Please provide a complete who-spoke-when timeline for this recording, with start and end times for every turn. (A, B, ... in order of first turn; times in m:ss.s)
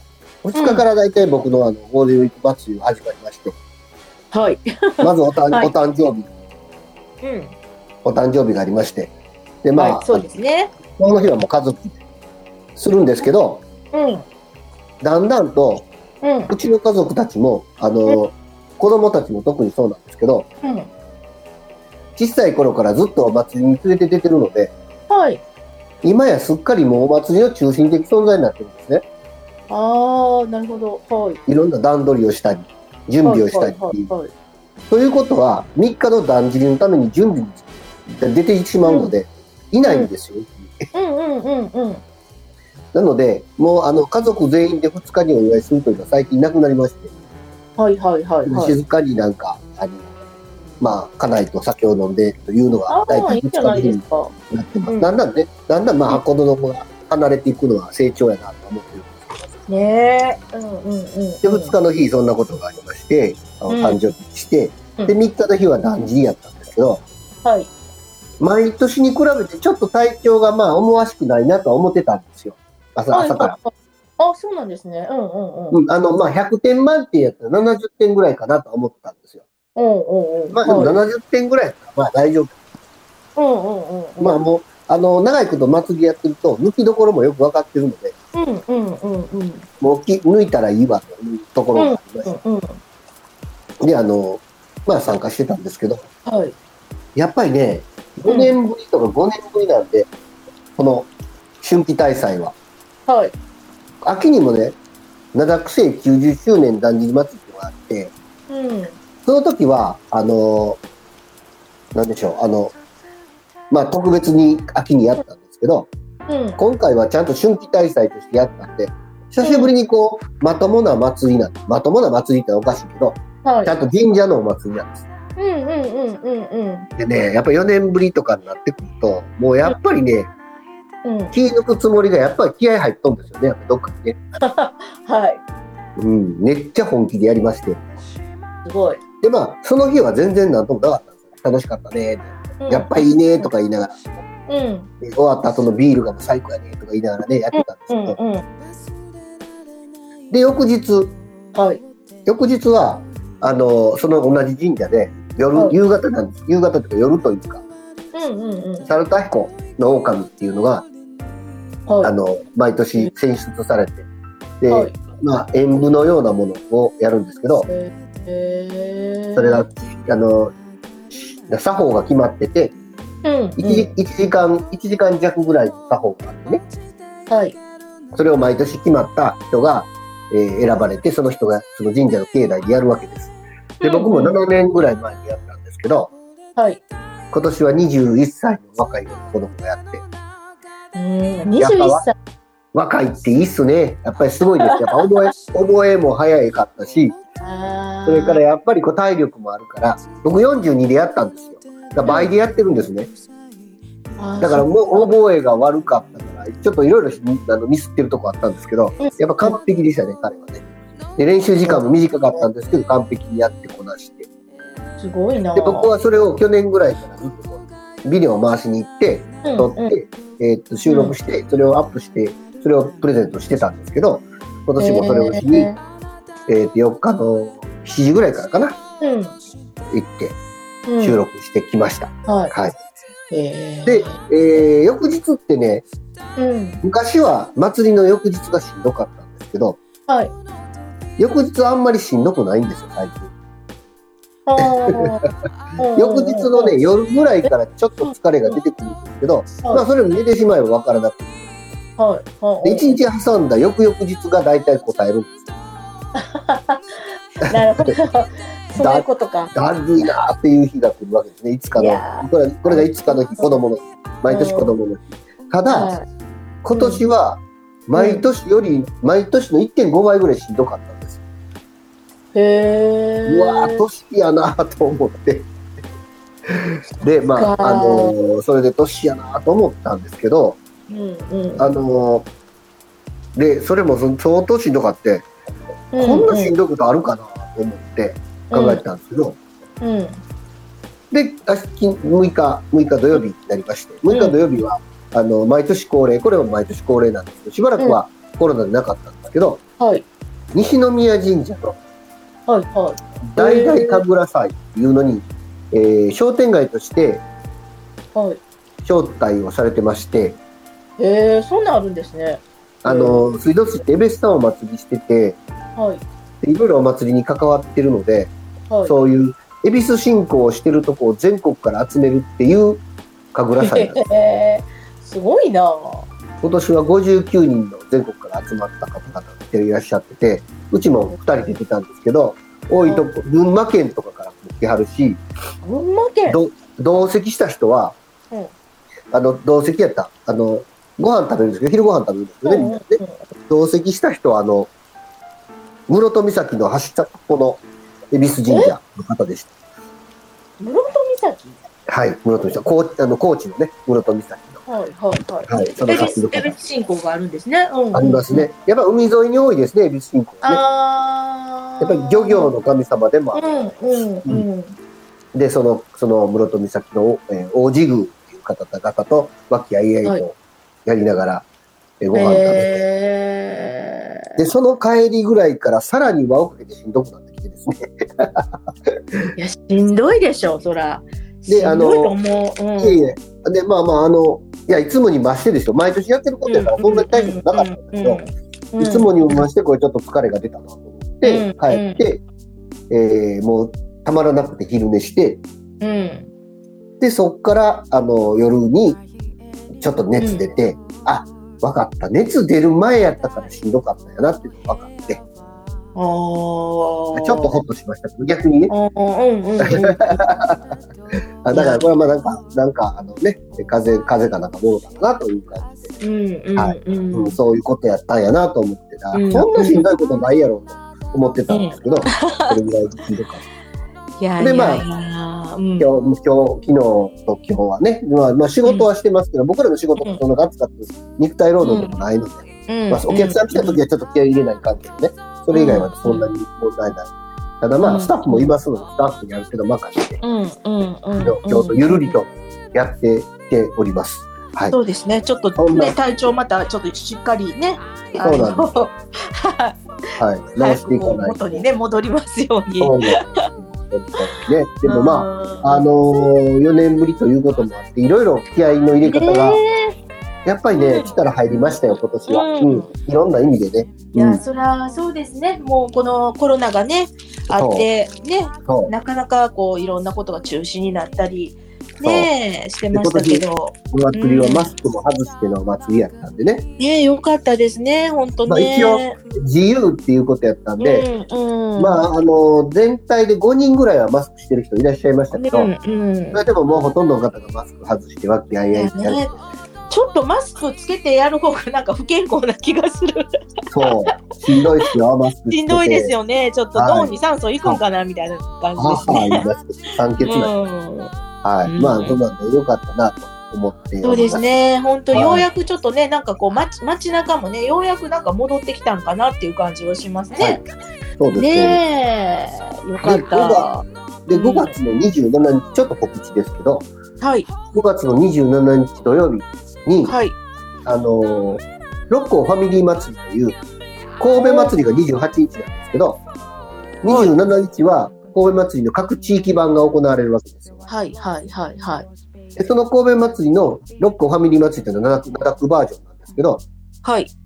0:00.4-0:03.6 A
0:00.6-0:00.8 B
0:04.3-0:05.7 B
0:05.0-0:06.3 A
0:07.2-0:07.5 B
0:08.0-0:09.1 A
0:09.6-0:10.3 A
0:09.8-0:10.7 B
0:10.9-0:12.0 A
0:12.8-0:13.6 A
0:13.9-0:14.2 B
0:15.0-0:15.9 A
0:16.2-0:16.5 B
0:16.5-0:20.5 A
0:20.6-0:20.9 B
0:22.2-0:24.7 A
0:25.1-0:25.4 B
0:26.0-0:29.0 A
0:29.7-0:31.4 B
0:31.5-0:34.1 A
0:33.2-0:34.3 B
0:34.9-0:40.9 A
0:38.8-0:39.1 B
0:39.8-0:40.1 B
0:40.9-0:42.0 B
0:42.9-0:47.1 A
0:47.8-0:48.8 B
0:48.5-0:50.1 A
0:50.8-0:59.5 A
0:52.9-0:54.3 B
0:59.7-1:01.8 B
1:01.4-1:07.0 A
1:03.7-1:04.0 B
1:07.4-1:07.7 B
1:08.4-1:13.6 A
1:13.1-1:15.8 B
1:15.7-1:19.4 A
1:19.8-1:21.0 B
1:20.5-1:22.6 A
1:23.4-1:24.4 B
1:24.2-1:28.2 A
1:28.3-1:29.7 B
1:29.8-1:32.3 A
1:31.8-1:32.8 B
1:33.8-1:36.1 A
1:36.3-1:36.6 B
1:37.2-1:40.1 A
1:38.3-1:38.5 B
1:40.8-1:41.1 A
1:41.6-1:42.6 A
1:43.1-1:43.3 B
1:44.0-1:44.8 A
1:45.3-1:48.1 A
1:48.5-1:49.0 B
1:49.2-1:50.8 A
1:51.9-1:52.8 A
1:53.7-1:55.9 A
1:56.3-1:56.6 B
1:56.6-2:05.1 A
1:59.4-1:59.7 B
2:03.4-2:03.7 B
2:05.4-2:06.9 B
2:07.0-2:10.3 A
2:11.0-2:11.3 B
2:11.3-2:14.2 A
2:14.4-2:15.4 B
2:16.0-2:17.8 A
2:18.6-2:19.0 B
2:19.2-2:24.1 A
2:22.6-2:23.5 B
2:24.5-2:24.9 B
2:25.0-2:28.2 A
2:27.5-2:28.4 B
2:30.3-2:31.2 A
2:31.5-2:31.8 B
2:32.3-2:37.6 A
2:38.1-2:38.9 B
2:38.9-2:40.9 A
2:41.9-2:42.1 B
2:42.0-2:44.1 A
2:44.6-2:47.7 A
2:47.7-2:49.6 B
2:49.4-2:50.5 A
2:51.1-2:52.8 A
2:53.2-2:53.9 B
2:53.6-2:56.6 A
2:57.3-2:57.6 B
2:58.1-3:06.1 A
3:03.8-3:04.4 B
3:06.6-3:06.8 B
3:07.3-3:10.0 A
3:11.0-3:12.1 B
3:11.6-3:12.1 A
3:12.7-3:17.2 A
3:17.4-3:18.4 B
3:18.1-3:23.1 A
3:22.0-3:22.3 B
3:24.2-3:25.1 B
3:24.4-3:30.6 A
3:29.0-3:29.6 B
3:31.2-3:34.3 A
3:35.0-3:35.9 B
3:35.6-3:45.7 A
3:39.4-3:40.0 B
3:40.9-3:41.2 B
3:44.8-3:45.8 B
3:46.5-3:48.8 A
3:49.0-3:49.3 B
3:49.9-3:50.4 A
3:50.9-3:51.2 B
3:51.0-3:52.8 A
3:52.3-3:52.5 B
3:53.3-3:54.2 B
3:53.8-3:55.8 A
3:56.4-3:56.8 B
3:56.8-3:59.8 A
4:00.1-4:00.3 B
4:01.2-4:03.3 A
4:04.5-4:05.2 B
4:04.6-4:05.3 A
4:05.8-4:06.8 B
4:05.9-4:11.4 A
4:08.0-4:08.6 B
4:09.6-4:09.9 B
4:12.0-4:13.0 B
4:12.6-4:15.4 A
4:16.2-4:16.8 B
4:17.5-4:18.0 A
4:17.5-4:19.5 B
4:18.8-4:25.9 A
4:21.8-4:23.5 B
4:24.3-4:24.7 B
4:25.7-4:26.1 B
4:26.6-4:31.2 A
4:26.7-4:27.0 B
4:28.0-4:28.3 B
4:32.3-4:33.8 B
4:33.3-4:35.5 A
4:36.5-4:40.6 A
4:37.4-4:38.2 B
4:40.9-4:41.7 B
4:41.6-4:42.3 A
4:43.4-4:45.3 A
4:45.9-4:46.5 B
4:46.0-4:49.4 A
4:48.5-4:48.8 B
4:49.8-4:50.2 B
4:51.1-4:59.6 A
4:54.1-4:54.4 B
4:59.8-5:00.1 B
5:00.5-5:01.8 A
5:02.5-5:04.0 B
5:03.2-5:07.2 A
5:08.2-5:08.4 B
5:08.8-5:10.4 A
5:11.0-5:13.3 B
5:12.8-5:15.4 A
5:15.8-5:16.0 B
5:16.4-5:18.3 A
5:18.9-5:24.0 A
5:23.6-5:26.1 B
5:26.4-5:35.2 A
5:31.1-5:31.5 B
5:35.6-5:36.4 B
5:36.3-5:38.0 A
5:39.1-5:44.7 A
5:42.4-5:43.2 B
5:45.9-5:49.5 A
5:48.5-5:48.8 B
5:50.6-5:51.6 B
5:51.9-5:54.6 A
5:54.7-5:58.5 B
5:55.5-5:56.6 A
5:57.9-6:00.6 A
6:00.4-6:02.5 B
6:01.8-6:04.5 A
6:03.4-6:04.8 B
6:05.3-6:11.5 A
6:12.0-6:12.8 A
6:12.1-6:14.4 B
6:14.4-6:19.2 A
6:19.4-6:23.1 B
6:21.5-6:22.2 A
6:22.8-6:28.2 A
6:26.5-6:29.4 B
6:28.8-6:32.2 A
6:31.2-6:32.0 B
6:32.9-6:35.4 A
6:35.8-6:36.3 B
6:37.0-6:39.0 A
6:39.7-6:45.2 A
6:46.0-6:47.6 B
6:47.1-6:48.7 A
6:48.7-6:50.3 B
6:49.6-6:50.7 A
6:51.4-6:55.9 A
6:51.5-6:51.9 B
6:56.0-6:57.4 B
6:56.6-7:03.4 A
6:59.1-6:59.9 B
7:01.5-7:02.6 B
7:04.2-7:05.9 B
7:04.4-7:04.9 A
7:05.8-7:20.2 A
7:11.6-7:12.0 B
7:12.7-7:13.8 B
7:15.5-7:16.3 B
7:17.8-7:18.5 B
7:20.2-7:22.2 B
7:21.2-7:24.8 A
7:24.7-7:29.8 B
7:25.6-7:26.0 A
7:28.2-7:28.7 A
7:30.2-7:31.6 A
7:30.6-7:33.5 B
7:32.8-7:39.6 A
7:34.9-7:35.9 B
7:39.0-7:40.0 B
7:40.4-7:44.4 A
7:40.7-7:42.9 B
7:44.1-7:54.7 B
7:47.5-7:47.9 A
7:48.6-7:48.9 A
7:52.0-7:52.3 A
7:52.9-7:56.7 A
7:56.8-7:59.2 B
7:58.5-8:01.1 A
8:00.8-8:02.0 B
8:01.8-8:05.7 A
8:05.3-8:06.4 B
8:06.3-8:09.3 A
8:08.7-8:09.3 B
8:09.9-8:13.3 B
8:13.7-8:16.1 A
8:13.8-8:14.9 B
8:15.5-8:19.4 B
8:16.8-8:17.1 A
8:18.8-8:20.5 A
8:20.2-8:21.1 B
8:21.4-8:24.4 A
8:21.6-8:22.2 B
8:24.0-8:30.6 B
8:25.1-8:25.5 A
8:30.4-8:30.6 A
8:31.2-8:31.8 A
8:31.4-8:34.7 B
8:33.0-8:33.7 A
8:34.3-8:36.9 A
8:37.2-8:37.5 B
8:37.7-8:40.2 A
8:40.0-8:40.4 B
8:40.8-8:43.6 A
8:44.2-8:46.2 A
8:44.4-8:44.8 B
8:47.0-8:50.8 A
8:47.1-8:47.4 B
8:50.9-8:52.1 B
8:52.6-8:56.6 A
8:57.0-8:57.3 B